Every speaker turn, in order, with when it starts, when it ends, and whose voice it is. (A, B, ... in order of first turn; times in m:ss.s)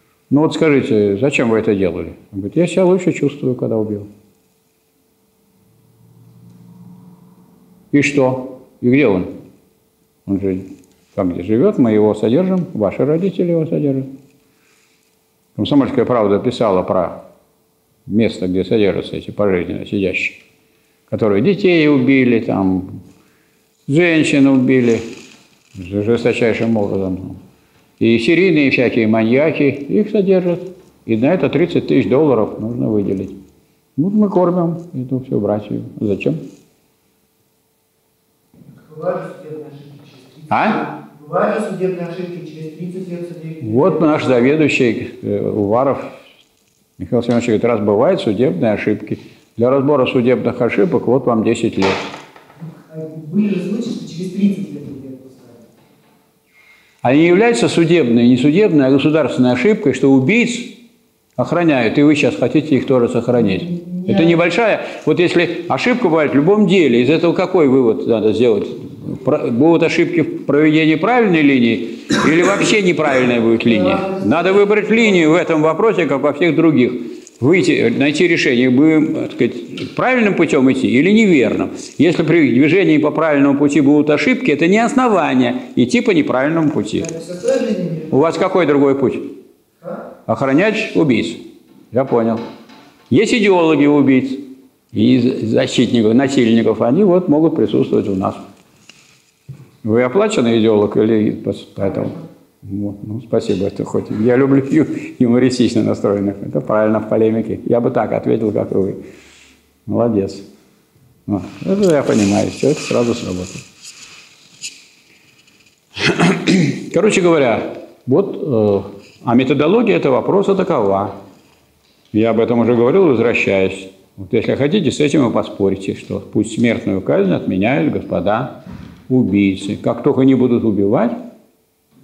0:00.3-0:04.1 A
0:07.9-0:09.4 A
0:10.3-0:14.1 A
0:15.6-0:17.2 A
0:18.1-0:20.4 A
0:21.1-0:23.0 A
0:23.9-0:25.1 A
0:25.8-0:27.4 A
0:28.0-0:33.4 A
0:34.0-0:36.4 A
0:38.9-0:44.1 B
0:40.5-0:40.9 A
0:43.6-0:46.2 A
0:47.0-0:52.0 A
0:52.9-0:55.6 B
0:57.0-1:00.8 A
1:01.4-1:27.1 A
1:27.0-1:28.2 B
1:28.1-1:29.3 A
1:30.3-1:32.4 A
1:33.1-1:38.4 A
1:39.8-1:49.0 A
1:49.9-1:50.5 A
1:51.3-1:53.6 A
1:56.0-2:01.2 A
2:02.1-2:11.2 A